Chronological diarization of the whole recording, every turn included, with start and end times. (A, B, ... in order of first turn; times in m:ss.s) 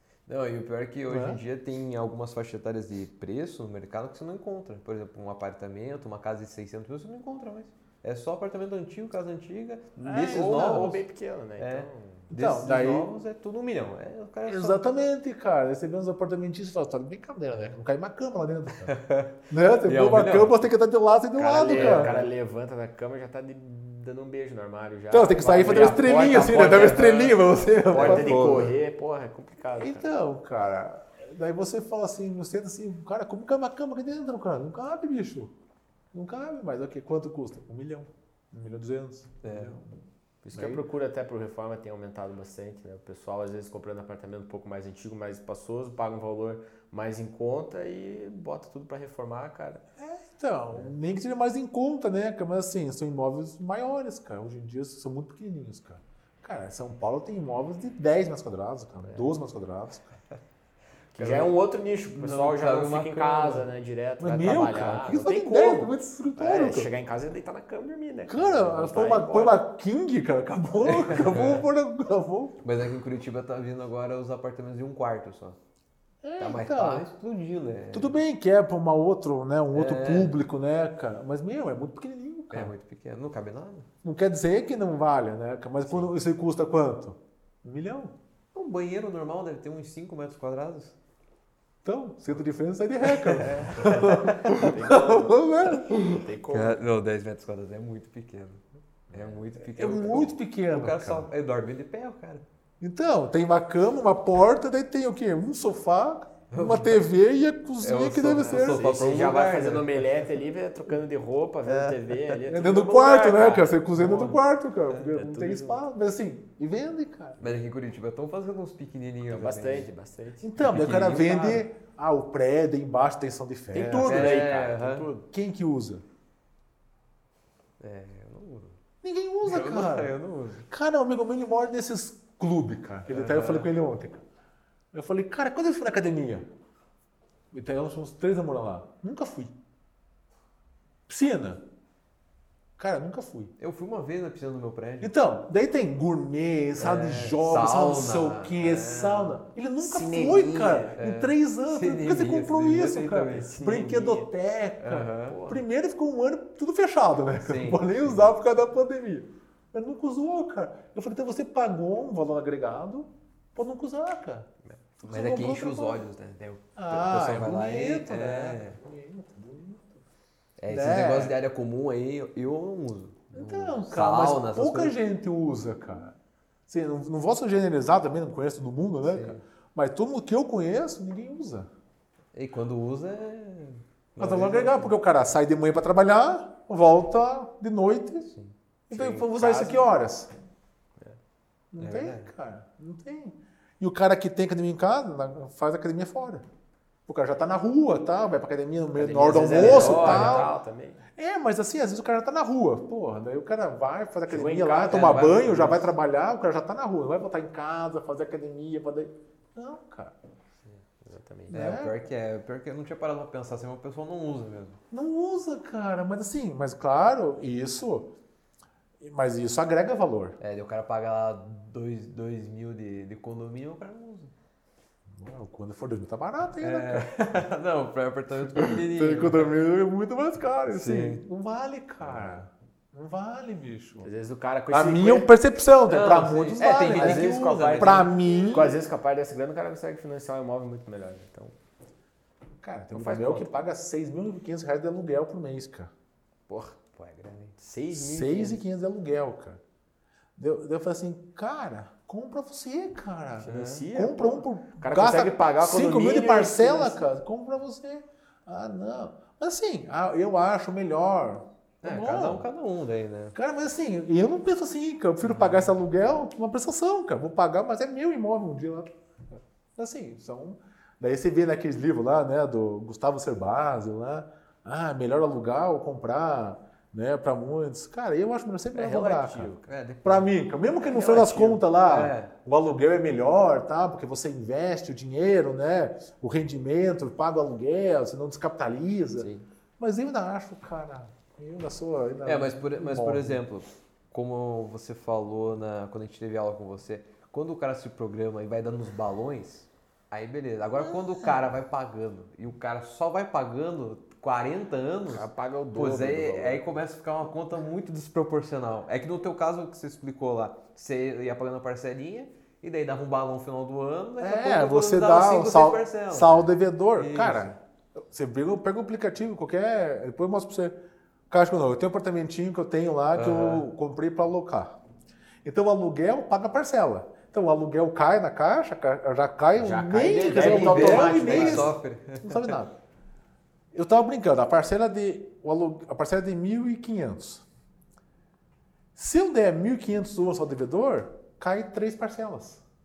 0:00.3-0:11.0 A
0:01.1-0:01.4 B
0:10.0-0:10.8 B
0:10.3-0:12.3 C
0:11.6-0:14.8 A
0:12.3-0:13.1 B
0:14.5-0:19.0 B
0:18.9-0:20.6 A
0:19.5-0:22.2 B
0:21.4-0:30.1 C
0:21.7-0:22.3 A
0:25.1-0:28.6 B
0:25.7-0:27.3 A
0:27.8-0:28.8 A
0:29.8-0:35.5 B
0:36.1-0:39.8 B
0:39.4-0:39.8 A
0:40.4-0:49.8 C
0:40.5-0:40.8 B
0:50.0-1:00.2 B
1:01.2-1:01.5 A
1:01.2-1:09.6 C
1:02.2-1:03.7 A
1:04.2-1:06.9 B
1:08.3-1:12.6 B
1:10.8-1:11.6 A
1:12.6-1:15.6 A
1:16.2-1:17.1 B
1:16.4-1:18.2 A
1:17.9-1:22.7 B
1:19.7-1:20.4 A
1:22.5-1:23.9 A
1:24.0-1:28.2 B
1:28.5-1:31.0 A
1:31.8-1:36.3 B
1:33.1-1:34.6 A
1:33.8-1:36.8 C
1:36.5-1:42.4 A
1:39.1-1:39.4 C
1:39.6-1:41.3 B
1:42.8-1:48.9 B
1:46.5-1:47.1 A
1:47.8-1:50.0 A
1:48.4-1:53.8 C
1:52.5-1:57.5 B
1:54.0-1:54.4 A
1:55.1-1:55.8 C
1:57.4-1:59.9 A
1:59.3-2:00.5 C
2:00.4-2:04.5 B
2:00.6-2:01.6 A
2:03.7-2:05.3 C
2:04.0-2:05.1 A
2:05.3-2:06.0 B
2:07.8-2:08.8 A
2:09.0-2:10.1 B
2:09.4-2:10.7 A
2:10.7-2:14.2 B
2:13.1-2:13.7 A
2:14.9-2:16.5 B
2:17.5-2:19.5 B
2:21.1-2:21.6 B
2:22.8-2:23.5 B
2:23.6-2:25.1 A
2:25.0-2:46.0 B
2:26.8-2:29.4 A
2:29.8-2:30.9 C
2:30.6-2:33.8 A
2:33.1-2:34.3 C
2:34.8-2:35.4 A
2:35.0-2:35.6 C
2:37.4-2:38.2 A
2:45.1-2:48.8 A
2:46.8-2:50.0 B
2:50.6-2:55.0 A
2:50.7-2:51.4 B
2:53.3-2:56.2 B
2:56.7-3:01.7 B
2:59.0-2:59.4 A
3:02.4-3:04.9 A
3:04.2-3:08.3 B
3:08.9-3:10.3 B
3:08.9-3:09.8 C
3:11.7-3:16.5 B
3:11.8-3:12.3 A
3:17.1-3:20.5 B
3:19.0-3:21.0 C
3:19.5-3:20.5 A
3:21.2-3:30.1 B
3:24.3-3:25.3 C
3:24.9-3:25.9 A
3:30.6-3:31.8 C
3:31.5-3:34.8 A
3:31.5-3:32.0 B
3:34.9-3:38.1 B
3:39.0-3:40.4 B
3:40.4-3:44.3 A
3:45.1-3:47.4 B
3:46.6-3:49.5 A
3:48.5-3:54.1 B
3:50.7-3:51.2 A
3:54.0-3:55.3 C
3:54.7-3:58.8 B
3:55.9-3:58.6 A
3:56.5-4:01.6 C
4:02.6-4:05.9 B
4:02.9-4:03.5 C
4:06.5-4:06.8 C
4:07.0-4:07.6 A
4:07.6-4:08.6 C
4:07.9-4:09.6 B
4:10.4-4:22.5 B
4:13.4-4:13.8 A
4:13.5-4:17.1 C
4:21.8-4:23.4 A
4:23.4-4:39.5 B
4:25.2-4:25.6 A
4:38.7-4:39.7 C
4:39.7-4:42.3 A
4:40.0-4:53.4 B
4:49.2-4:49.4 C
4:52.2-5:17.5 A
5:00.8-5:01.4 B
5:05.1-5:06.6 C
5:14.2-5:20.8 B
5:21.3-5:24.8 B
5:23.1-5:23.7 A
5:25.4-5:32.8 B
5:29.6-5:31.7 C
5:30.4-5:32.6 A
5:33.7-5:37.4 B
5:39.0-5:42.6 B